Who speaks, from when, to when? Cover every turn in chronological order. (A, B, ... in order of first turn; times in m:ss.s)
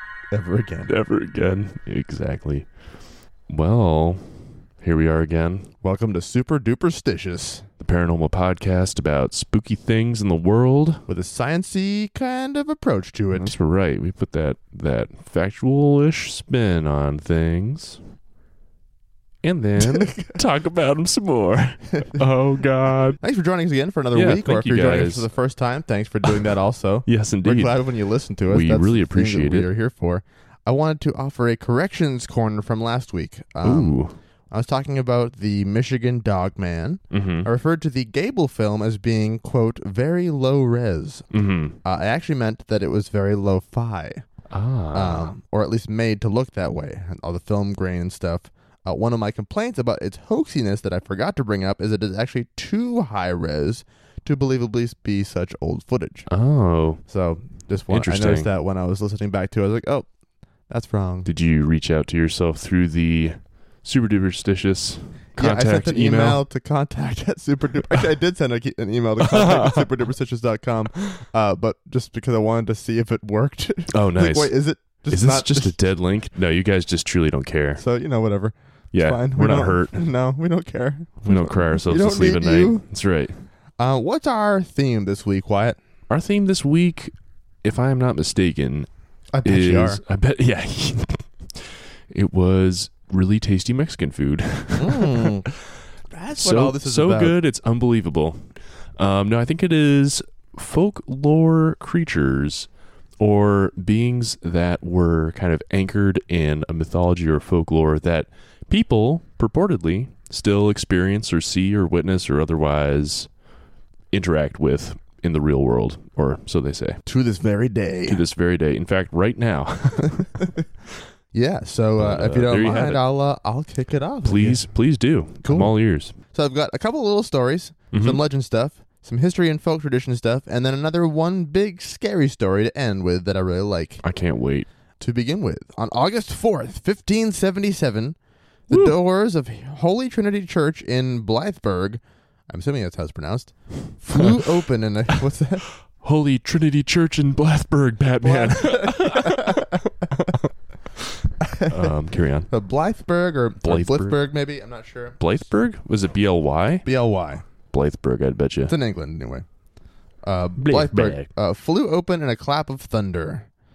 0:00.3-0:00.9 A
0:00.9-0:02.7 B
0:03.5-0:05.7 B
0:05.8-0:07.7 A
0:07.8-0:11.0 B
0:11.1-0:13.5 A
0:13.3-0:18.0 B
0:19.4-0:23.2 B
0:19.9-0:20.3 A
0:23.2-0:34.0 A
0:24.1-0:25.3 B
0:27.0-0:27.8 B
0:28.5-0:29.7 B
0:33.6-0:34.1 B
0:34.5-0:41.3 A
0:37.1-0:37.5 B
0:41.3-0:41.8 B
0:41.8-0:44.3 A
0:44.5-0:45.3 B
0:44.9-0:56.3 A
0:56.3-0:57.0 B
0:57.0-1:00.1 A
0:57.9-0:58.5 B
1:00.7-1:01.3 A
1:01.2-1:06.4 B
1:05.4-1:15.8 A
1:09.2-1:09.8 B
1:13.9-1:14.5 B
1:15.1-1:17.8 B
1:17.8-1:22.8 A
1:18.9-1:20.0 B
1:21.2-1:23.4 B
1:23.8-1:25.8 A
1:26.1-1:28.9 B
1:29.3-1:30.0 A
1:29.4-1:35.7 B
1:34.8-1:35.5 A
1:36.1-1:37.4 A
1:36.4-1:42.7 B
1:43.2-1:53.3 B
1:54.1-1:57.0 B
1:57.0-1:58.2 A
1:58.1-2:00.4 B
2:00.0-2:00.6 A
2:01.3-2:04.7 A
2:02.0-2:03.0 B
2:04.2-2:06.1 B
2:05.4-2:14.0 A
2:07.9-2:08.2 B
2:14.0-2:14.7 B
2:15.0-2:18.2 A
2:18.7-2:25.6 A
2:18.7-2:19.0 B
2:24.1-2:24.4 B
2:25.9-2:30.4 B
2:28.2-2:29.8 A
2:31.4-2:31.8 A
2:31.6-2:32.5 B
2:32.5-2:35.2 A
2:33.6-2:34.2 B
2:35.2-2:36.8 B
2:36.8-2:37.4 A
2:37.7-2:38.7 B
2:38.6-2:39.4 A
2:40.2-2:43.5 A
2:40.6-2:41.3 B